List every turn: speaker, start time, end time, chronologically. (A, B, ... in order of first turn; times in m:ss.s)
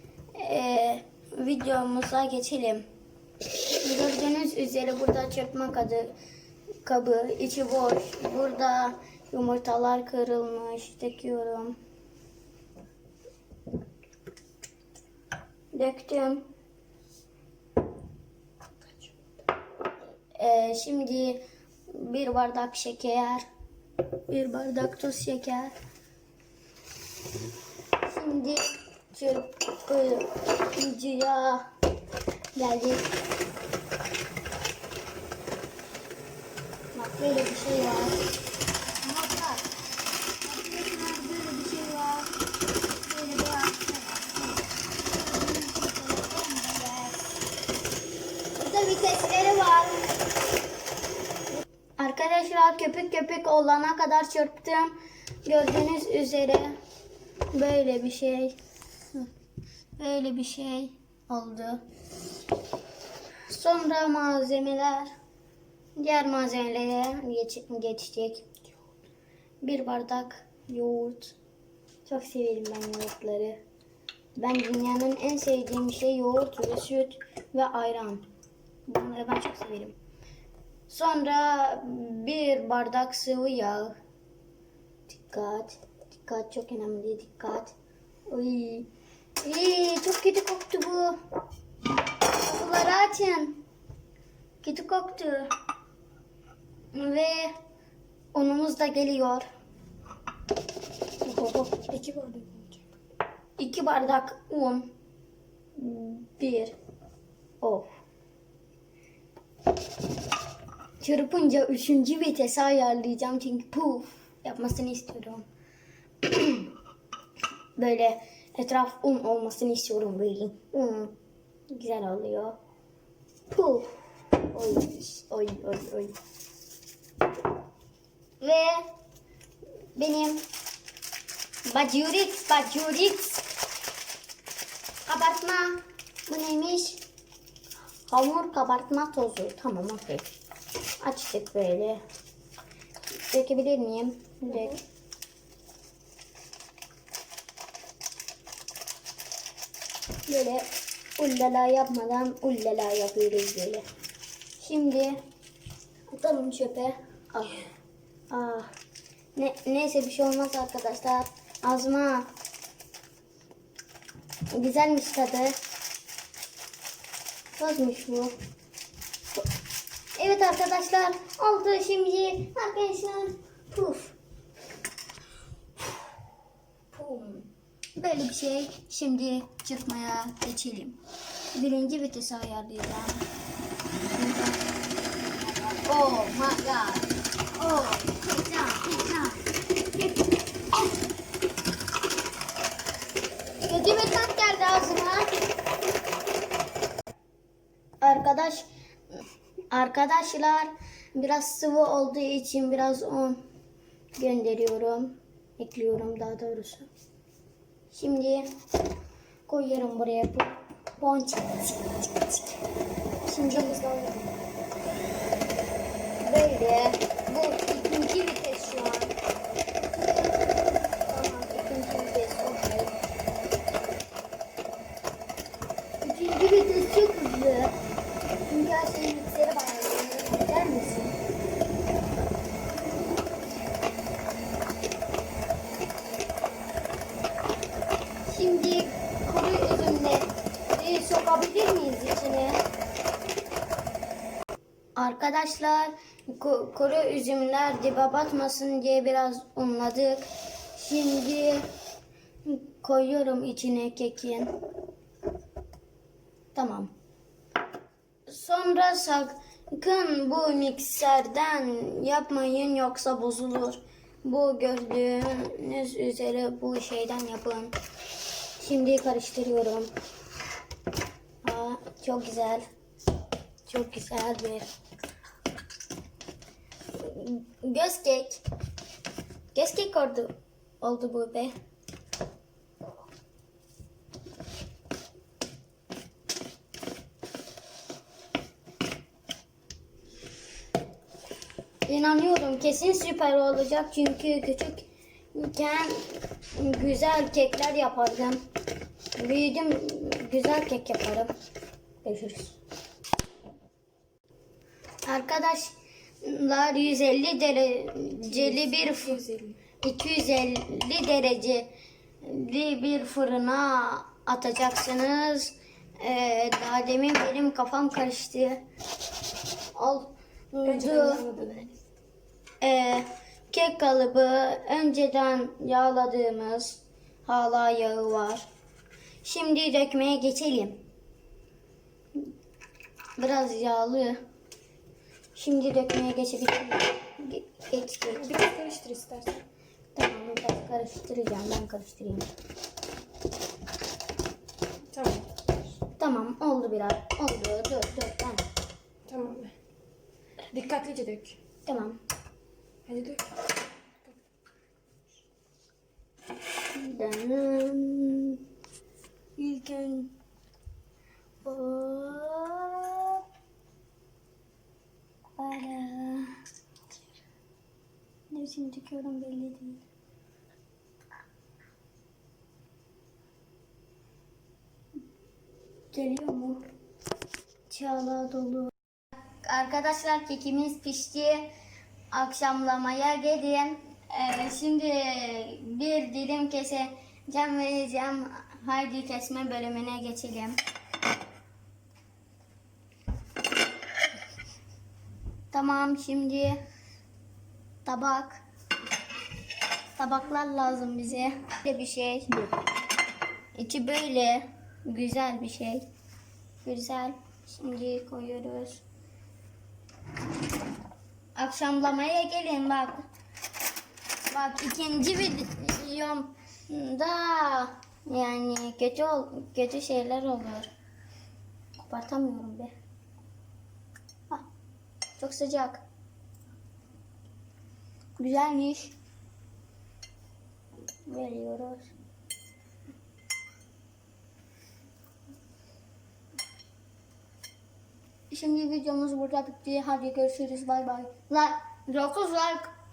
0:00.4-0:02.8 A
0:03.8-0:06.1 A
0:06.8-0:11.8 A
0:15.7-0:16.4 A
0:20.4-0:23.4 A
0:24.3-0:25.7 A
0:28.0-0:31.7 A
0:32.6-0:33.0 A
0:36.9-0:38.2 A
0:39.0-0:39.7 A
0:40.4-0:42.3 A
0:43.0-0:47.3 A
0:48.5-0:50.1 A
0:52.0-0:54.9 A
0:55.4-0:56.8 A
0:57.5-0:58.6 A
1:00.0-1:01.8 A
1:03.5-1:05.1 A
1:06.0-1:08.4 A
1:09.6-1:11.4 A
1:12.0-1:13.6 A
1:14.4-1:18.3 A
1:18.9-1:20.0 A
1:20.9-1:23.9 A
1:25.1-1:27.7 A
1:28.3-1:28.9 A
1:29.4-1:31.2 A
1:32.3-1:33.6 A
1:34.6-1:35.5 A
1:36.9-1:37.5 A
1:38.3-1:39.4 A
1:41.2-1:42.8 B
1:43.6-1:44.9 A
1:45.7-1:46.8 A
1:47.6-1:47.9 A
1:51.0-1:55.4 A
1:56.2-1:56.7 A
1:57.8-2:01.1 A
2:01.7-2:02.6 A
2:03.5-2:06.1 A
2:08.4-2:08.9 A
2:09.9-2:10.4 A
2:11.7-2:13.4 A
2:15.1-2:17.0 A
2:18.1-2:20.3 A
2:21.0-2:22.0 A
2:23.2-2:24.8 A
2:30.3-2:30.7 A
2:31.2-2:33.8 A
2:34.6-2:35.2 A
2:36.1-2:37.7 A
2:38.3-2:38.7 A
2:39.3-2:42.3 A
2:44.5-2:45.6 A
2:47.6-2:48.3 A
2:50.2-2:54.2 A
2:56.9-3:01.0 A
3:01.5-3:03.2 A
3:04.1-3:04.6 A
3:05.4-3:09.4 A
3:09.9-3:10.3 A
3:13.6-3:15.3 A
3:18.0-3:18.7 A
3:19.7-3:23.4 A
3:24.2-3:26.9 A
3:27.9-3:28.5 A
3:29.5-3:32.6 A
3:33.2-3:33.8 A
3:33.5-3:34.3 B
3:36.2-3:39.2 A
3:41.1-3:42.9 A
3:46.0-3:47.7 A
3:48.4-3:51.2 A
3:58.3-4:02.6 A
4:05.0-4:11.6 A
4:12.4-4:14.5 A
4:16.5-4:16.9 A
4:18.3-4:27.7 A
4:28.6-4:29.9 A
4:31.4-4:32.6 A
4:33.7-4:34.7 A
4:37.0-4:38.4 A
4:39.5-4:41.5 A
4:51.9-4:58.4 A
4:59.2-5:01.3 A
5:02.0-5:02.6 A
5:05.0-5:09.2 A
5:08.2-5:09.6 B
5:09.8-5:11.7 A
5:12.2-5:18.6 A
5:19.7-5:21.2 A
5:20.6-5:21.8 B
5:22.6-5:28.4 A
5:29.2-5:30.8 A
5:33.2-5:34.2 A
5:35.3-5:38.3 A
5:38.1-5:39.4 B
5:39.9-5:42.3 A
5:44.9-5:45.4 B
5:46.0-5:48.4 A
5:49.1-5:49.5 B
5:50.5-5:51.4 B
5:51.6-5:52.0 A
5:52.8-5:53.2 B
5:56.7-5:58.4 A
5:59.4-6:00.1 A
6:01.4-6:03.2 A
6:05.4-6:06.3 A
6:08.3-6:09.8 A
6:15.9-6:16.6 A
6:17.7-6:18.7 A
6:19.4-6:21.5 A
6:22.1-6:30.6 A
6:35.5-6:36.6 A
6:37.8-6:38.4 A
6:40.0-6:42.5 A
6:43.5-6:45.8 A
6:46.6-6:48.8 A
6:51.4-6:53.0 A
6:54.3-7:00.7 A
7:01.8-7:02.7 A
7:05.2-7:05.8 A
7:08.2-7:08.9 A
7:11.0-7:11.9 A
7:18.3-7:22.7 A